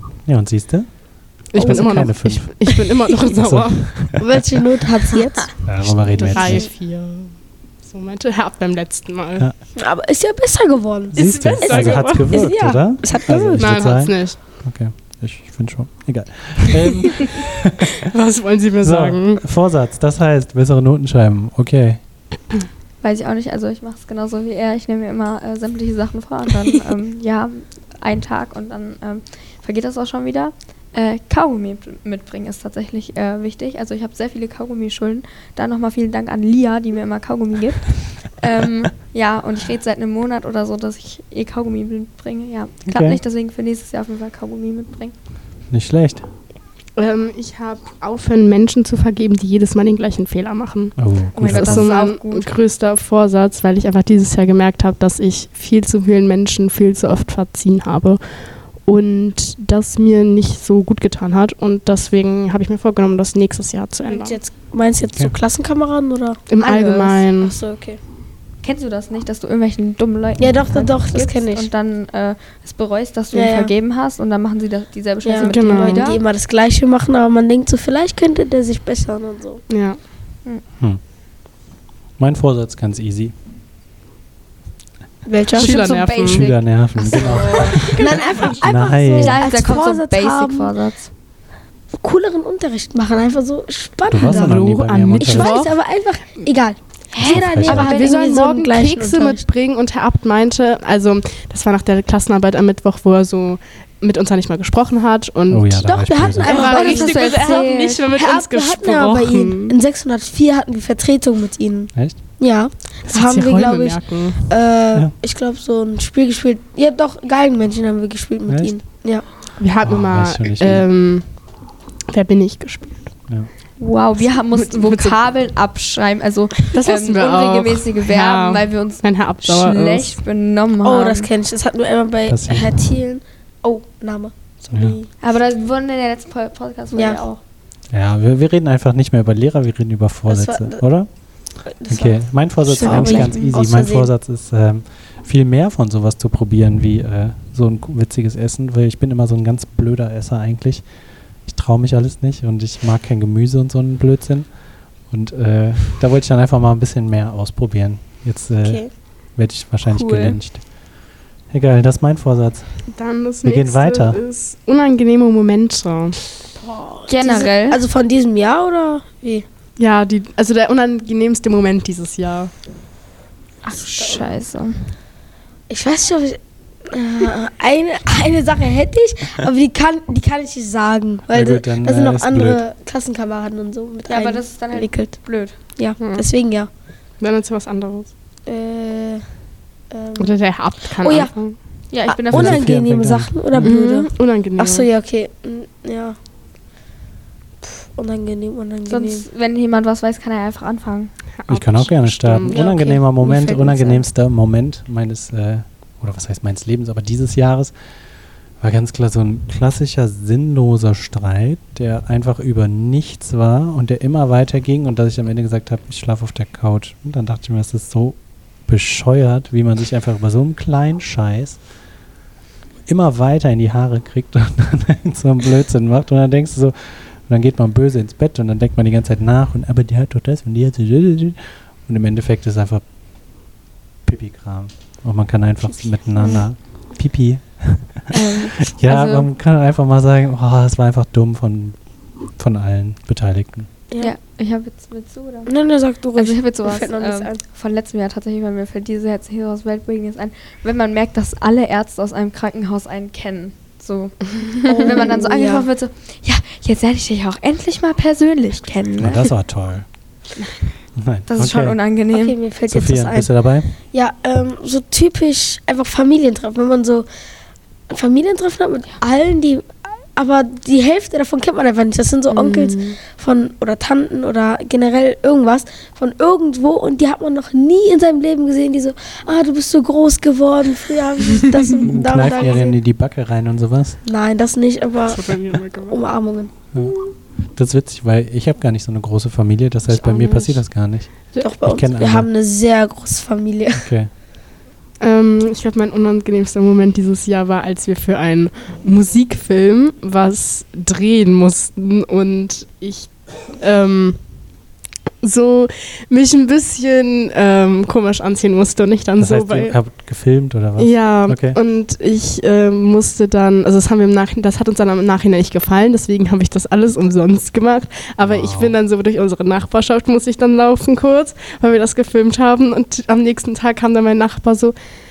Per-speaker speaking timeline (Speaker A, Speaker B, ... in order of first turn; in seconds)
Speaker A: 0.2-4.4, 5.6-6.7, 11.1-17.8, 18.8-22.0, 42.9-43.2, 45.7-46.3, 51.0-51.9, 65.1-65.3, 82.2-83.3, 86.2-89.4, 94.1-95.6, 97.2-97.9, 105.5-106.7, 118.5-118.8, 119.8-120.8, 132.3-132.7, 137.9-162.9, 163.4-164.2, 181.3-182.6, 192.3-193.7, 201.5-207.7, 208.6-221.6, 222.8-232.8, 234.0-238.1, 238.7-243.7, 259.0-259.9, 261.0-261.8, 262.7-263.7, 281.8-284.0, 287.5-292.3, 293.7-294.1, 309.2-311.6, 318.2-318.7
Speaker B: 1.5-4.2, 6.0-9.5, 11.1-12.5, 13.5-14.4, 18.1-19.4, 47.0-64.4, 66.5-67.5, 75.4-76.1, 79.7-80.0, 85.5-86.5, 87.6-88.5, 94.2-95.8, 97.6-109.8, 113.0-114.5, 119.6-123.2, 124.5-125.2, 126.7-130.2, 162.9-166.2, 169.8-172.5, 186.0-186.3, 187.2-188.1, 190.2-191.6, 193.6-194.9, 201.4-202.7, 272.3-273.0, 285.1-286.0, 289.9-290.6, 295.0-304.2, 305.2-309.8, 310.8-324.7
Speaker C: 1.6-1.9, 4.2-6.7, 9.8-13.9, 64.1-68.0, 70.4-71.7, 73.3-73.7, 75.2-79.6, 85.2-85.7, 87.9-90.7, 92.0-94.6, 95.1-99.4, 105.8-119.2, 130.8-135.1, 136.9-137.2, 140.3-140.9, 141.6-144.1, 158.6-158.9, 166.6-169.4, 175.7-186.7, 188.4-189.2, 189.9-190.3, 191.0-191.3, 192.0-196.2, 197.6-199.2, 202.4-204.0, 243.9-244.2, 245.4-247.4, 254.7-255.7, 262.1-267.1, 267.9-282.8, 284.0-286.5, 291.4-293.9
Speaker D: 23.0-45.1, 51.3-52.5, 68.6-76.2, 85.5-88.0, 89.1-91.1, 97.1-98.1, 106.4-108.0, 123.8-131.3, 135.2-137.4, 142.8-143.5, 160.0-160.3, 167.1-167.8, 173.6-174.9, 184.1-185.6, 191.9-192.7, 198.9-201.1, 238.1-239.3, 244.0-245.6, 246.1-259.3, 261.3-262.4